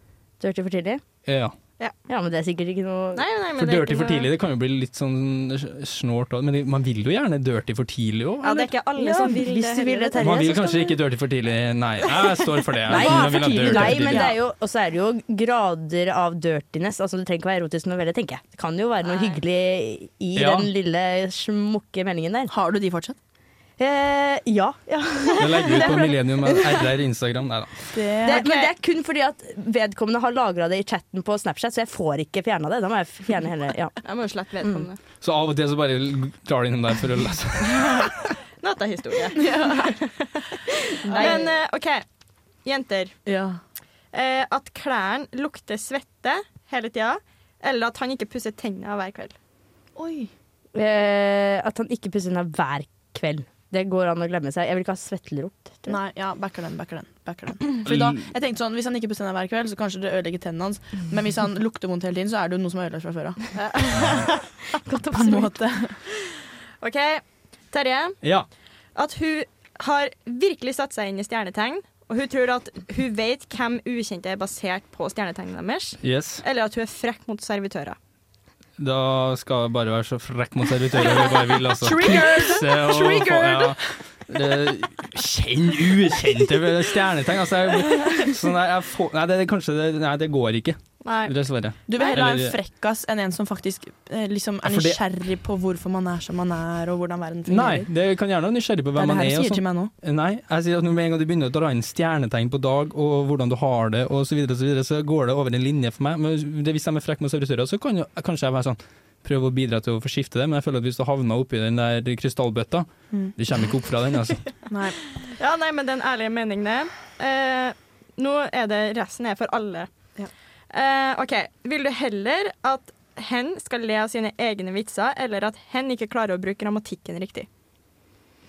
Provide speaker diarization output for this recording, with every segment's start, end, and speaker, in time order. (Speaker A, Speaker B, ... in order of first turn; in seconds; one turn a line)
Speaker A: 0.4-1.0
Speaker B: 1.3-1.5
Speaker A: 2.1-3.2
Speaker C: 3.1-4.3
Speaker B: 3.6-8.7
Speaker C: 8.4-10.5
Speaker A: 9.0-11.0
Speaker B: 10.2-14.3
Speaker A: 12.9-22.5
Speaker D: 12.9-14.4
Speaker C: 19.1-19.4
Speaker B: 20.4-20.7
Speaker D: 22.5-23.2
Speaker A: 23.8-26.9
Speaker B: 25.4-27.9
Speaker D: 27.9-28.6
Speaker A: 28.2-34.0
Speaker C: 28.3-28.7
Speaker C: 34.0-35.0
Speaker B: 35.2-38.3
Speaker C: 38.6-42.0
Speaker D: 39.4-40.0
Speaker D: 41.0-41.4
Speaker A: 41.1-41.4
Speaker C: 42.6-43.2
Speaker D: 43.3-43.6
Speaker C: 44.1-49.3
Speaker D: 50.0-50.3
Speaker A: 50.7-56.0
Speaker D: 55.9-63.4
Speaker B: 57.9-58.2
Speaker C: 63.5-65.4
Speaker D: 65.1-66.0
Speaker C: 66.1-68.2
Speaker B: 68.2-68.5
Speaker C: 69.0-78.0
Speaker B: 76.0-76.4
Speaker B: 78.8-92.6
Speaker D: 81.8-83.8
Speaker C: 91.0-91.3
Speaker D: 91.9-97.9
Speaker B: 94.6-95.0
Speaker B: 97.5-114.5
Speaker D: 99.0-99.9
Speaker D: 114.7-115.0
Speaker C: 115.2-119.9
Speaker C: 120.7-127.5